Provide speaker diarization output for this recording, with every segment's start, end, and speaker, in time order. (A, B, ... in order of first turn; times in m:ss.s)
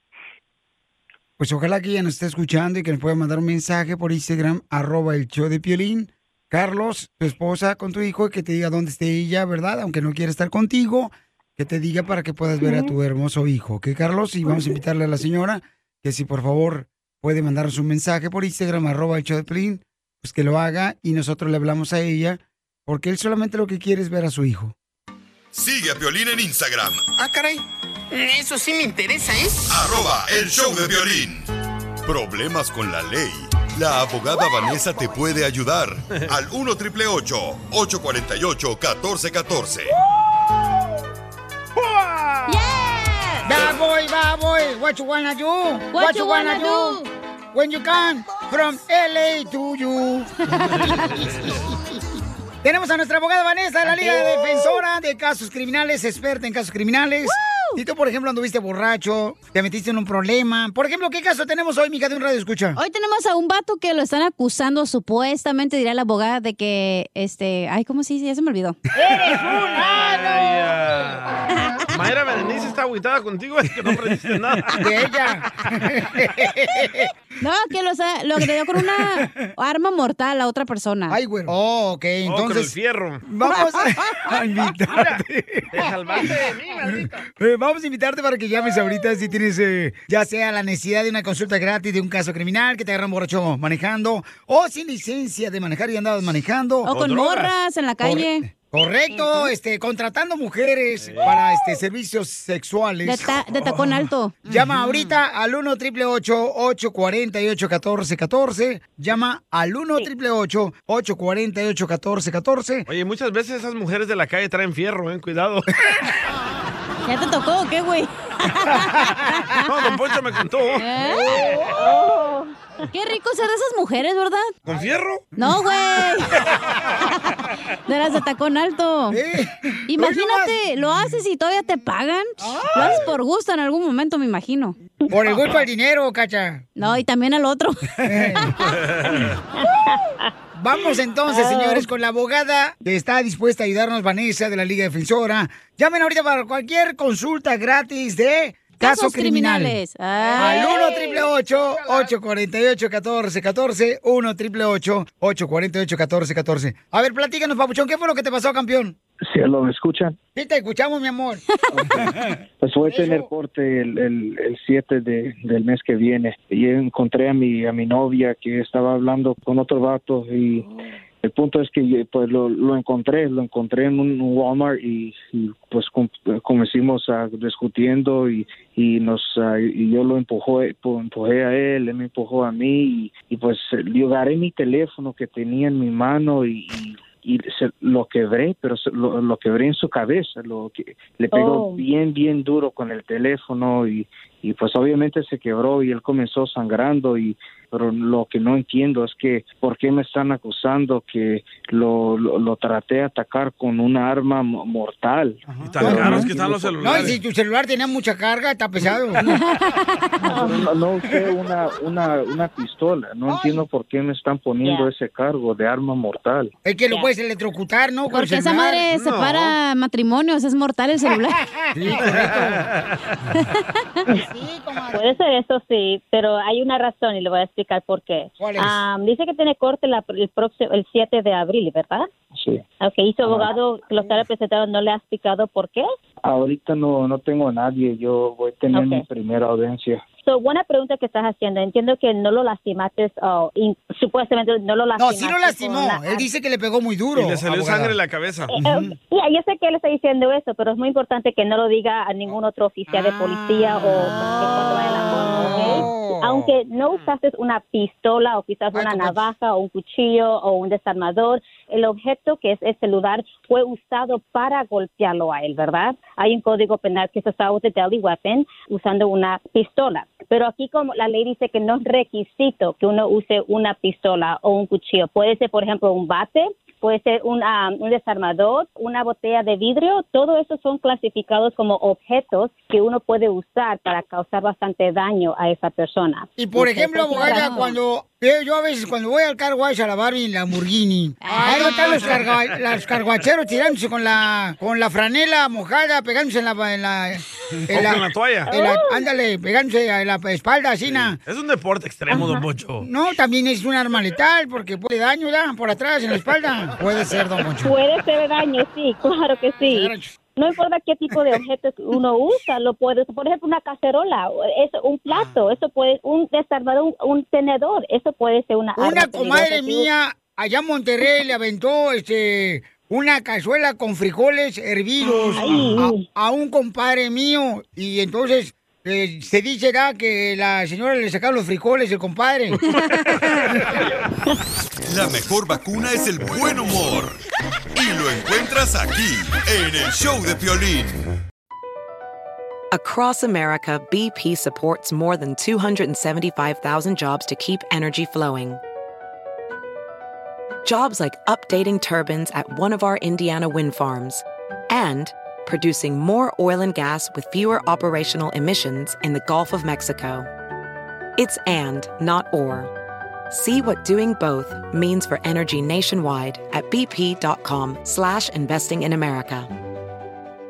0:01.4-0:24.7 A
0:12.6-0:12.9 B
0:14.4-0:14.8 B
0:25.5-0:27.1 C
0:27.2-0:29.7 D
0:29.7-0:31.5 C
0:32.0-0:39.9 C
0:41.8-0:42.7 E
0:42.5-0:43.7 F
0:43.4-0:47.0 A
0:45.9-0:47.1 F
0:47.5-0:50.3 A
0:50.5-0:51.2 F
0:50.7-0:51.7 E
0:50.8-0:51.6 A
0:52.6-1:02.8 A
0:54.0-0:54.4 B
0:57.3-0:57.8 F
1:02.8-1:08.8 F
1:09.0-1:10.9 A
1:09.3-1:14.9 E
1:11.5-1:11.9 F
1:14.7-1:17.1 A
1:17.4-1:21.2 F
1:18.8-1:19.4 A
1:21.1-1:22.7 A
1:22.3-1:23.2 E
1:23.3-1:36.9 A
1:23.5-1:24.3 F
1:24.9-1:27.2 E
1:36.8-1:38.5 F
1:36.9-1:37.5 E
1:38.0-1:52.9 A
1:39.2-1:39.5 F
1:41.0-1:41.4 E
1:43.0-1:45.0 F
1:52.9-1:55.7 E
1:57.1-1:59.6 F
1:58.7-1:59.6 A
1:59.7-2:01.8 E
2:00.8-2:01.3 F
2:01.3-2:02.6 B
2:02.9-2:04.5 F
2:04.7-2:05.3 E
2:05.4-2:06.4 F
2:07.1-2:09.2 F
2:09.1-2:10.6 A
2:09.9-2:14.8 F
2:12.4-2:13.1 A
2:12.8-2:13.0 E
2:15.1-2:16.7 A
2:16.8-2:18.5 F
2:18.0-2:18.6 A
2:18.6-2:19.3 E
2:19.2-2:20.3 B
2:20.6-2:29.8 A
2:21.3-2:21.9 B
2:28.8-2:30.9 F
2:30.4-2:39.0 A
2:30.7-2:31.2 B
2:39.2-2:40.2 G
2:40.4-2:43.3 A
2:41.7-2:50.7 G
2:51.2-3:27.2 G
3:11.3-3:11.8 B
3:25.5-3:29.2 A
3:25.7-3:27.2 E
3:29.3-3:30.2 F
3:30.3-3:30.6 B
3:30.3-3:36.5 G
3:33.3-3:33.6 A
3:34.6-3:34.9 B
3:36.6-3:38.8 A
3:38.1-3:41.4 F
3:38.9-3:39.6 E
3:41.7-3:42.7 A
3:42.0-3:43.2 E
3:43.4-3:44.0 F
3:44.1-3:45.2 A
3:44.9-3:52.1 B
3:48.4-3:48.8 A
3:52.4-3:52.6 G
3:52.8-3:55.9 B
3:53.2-3:53.5 G
3:54.0-3:54.2 A
3:56.2-4:00.0 G
3:58.7-3:59.0 B
4:00.3-4:06.3 B
4:05.0-4:08.0 A
4:07.2-4:08.5 E
4:08.5-4:47.7 B
4:08.5-4:09.0 A
4:12.9-4:16.6 A
4:18.7-4:19.3 A
4:46.4-5:01.2 A
4:47.1-4:47.8 F
4:51.2-4:52.2 F
4:51.4-4:51.6 B
4:52.0-4:53.0 E
4:57.7-4:58.5 E
4:58.5-4:59.0 B
5:00.8-5:02.9 E
5:02.1-5:07.8 A
5:07.6-5:19.9 B
5:09.7-5:10.1 A
5:15.1-5:15.4 A
5:18.8-5:32.6 A
5:25.3-5:26.1 B
5:32.7-5:33.3 F
5:34.9-5:37.2 C
5:37.8-5:41.0 C
5:42.7-5:48.6 H
5:50.6-6:00.3 H
6:01.2-6:02.7 H
6:03.3-6:09.5 H